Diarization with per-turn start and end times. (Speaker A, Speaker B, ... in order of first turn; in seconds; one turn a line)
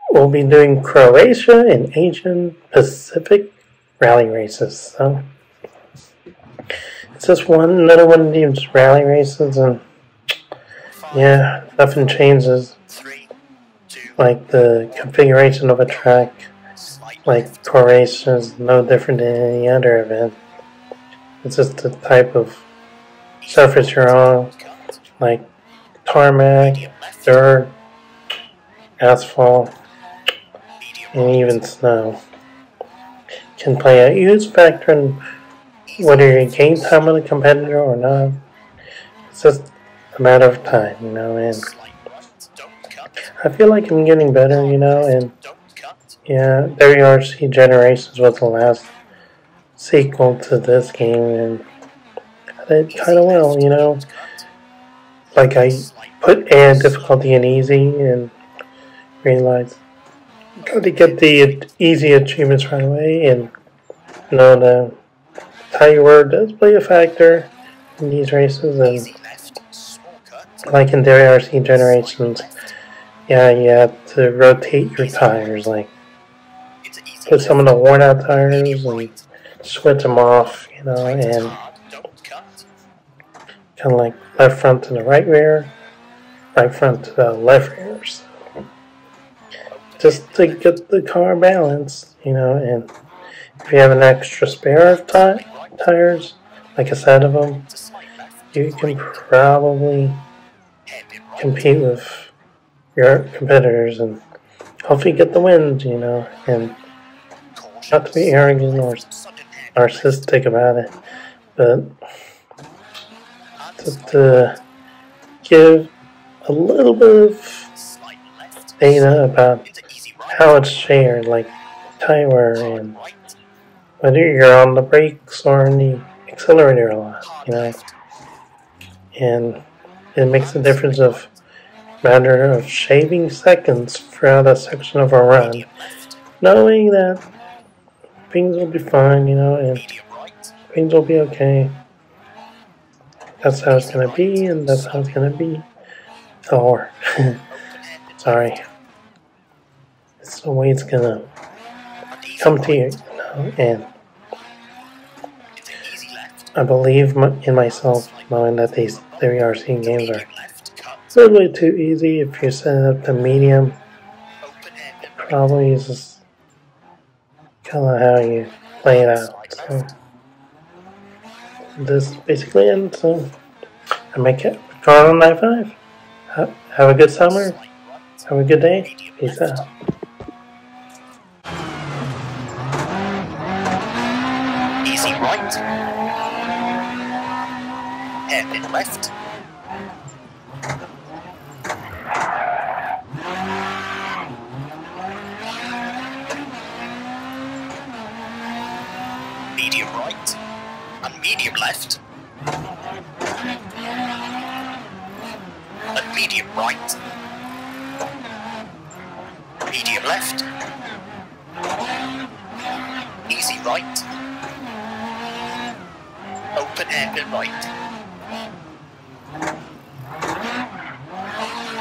Speaker A: 0.1-5.3
Speaker A: 7.2-9.8
Speaker B: 10.9-11.5
Speaker A: 11.1-12.8
Speaker B: 12.9-13.3
Speaker B: 13.9-14.2
Speaker A: 14.2-16.5
Speaker B: 14.9-18.0
Speaker A: 17.3-20.4
Speaker A: 21.4-22.6
Speaker B: 23.4-25.1
Speaker A: 23.5-24.6
Speaker A: 25.2-25.5
Speaker A: 26.1-27.8
Speaker B: 26.6-27.5
Speaker A: 29.0-29.8
Speaker B: 30.8-31.6
Speaker A: 31.1-32.2
Speaker A: 33.6-35.2
Speaker B: 35.9-37.2
Speaker A: 36.0-38.4
Speaker A: 39.3-41.7
Speaker B: 41.5-43.3
Speaker A: 43.3-45.3
Speaker B: 44.5-46.2
Speaker A: 46.3-48.9
Speaker A: 49.8-51.7
Speaker A: 52.6-54.1
Speaker B: 52.9-54.5
Speaker A: 55.3-58.3
Speaker B: 55.4-57.4
Speaker A: 59.2-59.8
Speaker B: 60.6-61.7
Speaker A: 60.6-63.5
Speaker A: 64.3-65.0
Speaker A: 65.7-69.1
Speaker B: 68.8-70.7
Speaker A: 70.7-72.5
Speaker B: 71.7-72.8
Speaker A: 73.3-75.9
Speaker B: 75.0-75.6
Speaker B: 76.8-77.8
Speaker A: 77.3-81.6
Speaker B: 78.5-79.2
Speaker B: 81.0-82.7
Speaker A: 83.8-85.7
Speaker A: 86.5-88.3
Speaker B: 89.7-90.8
Speaker A: 90.0-92.9
Speaker A: 93.6-97.7
Speaker B: 94.9-95.8
Speaker B: 97.6-99.3
Speaker A: 98.5-100.2
Speaker B: 100.9-101.8
Speaker A: 101.4-102.3
Speaker A: 103.0-104.2
Speaker A: 104.8-106.8
Speaker B: 107.5-110.2
Speaker A: 107.9-109.1
Speaker A: 109.8-111.0
Speaker A: 111.5-112.0
Speaker B: 113.6-114.6
Speaker A: 113.8-114.6
Speaker A: 115.4-115.9
Speaker A: 116.4-117.7
Speaker B: 117.7-120.5
Speaker A: 118.8-119.7
Speaker A: 120.3-123.0
Speaker B: 122.5-123.4
Speaker A: 124.0-127.8
Speaker B: 127.2-128.0
Speaker A: 129.1-131.3
Speaker B: 130.4-131.4
Speaker A: 132.0-135.7
Speaker B: 135.3-136.3
Speaker A: 136.4-137.3
Speaker A: 138.3-139.9
Speaker B: 139.7-140.6
Speaker A: 140.7-141.8
Speaker A: 143.4-145.7
Speaker B: 143.7-145.2
Speaker A: 146.5-147.4
Speaker B: 147.5-148.7
Speaker A: 148.2-148.6
Speaker A: 150.2-151.3
Speaker B: 152.1-153.1
Speaker A: 152.4-153.9
Speaker B: 155.6-156.5
Speaker A: 156.6-160.3
Speaker B: 157.6-161.1
Speaker A: 161.1-163.8
Speaker B: 164.4-165.6
Speaker A: 165.2-166.2
Speaker A: 167.7-169.9
Speaker B: 168.8-170.0
Speaker A: 171.8-173.3
Speaker A: 174.1-175.8
Speaker A: 176.3-177.6
Speaker B: 177.2-178.3
Speaker A: 178.3-179.7
Speaker B: 178.8-179.7
Speaker B: 184.8-185.6
Speaker B: 188.3-189.1
Speaker B: 199.6-200.4
Speaker B: 201.0-202.0
Speaker B: 205.9-207.0
Speaker B: 209.7-210.5
Speaker B: 213.3-214.1
Speaker B: 216.6-217.7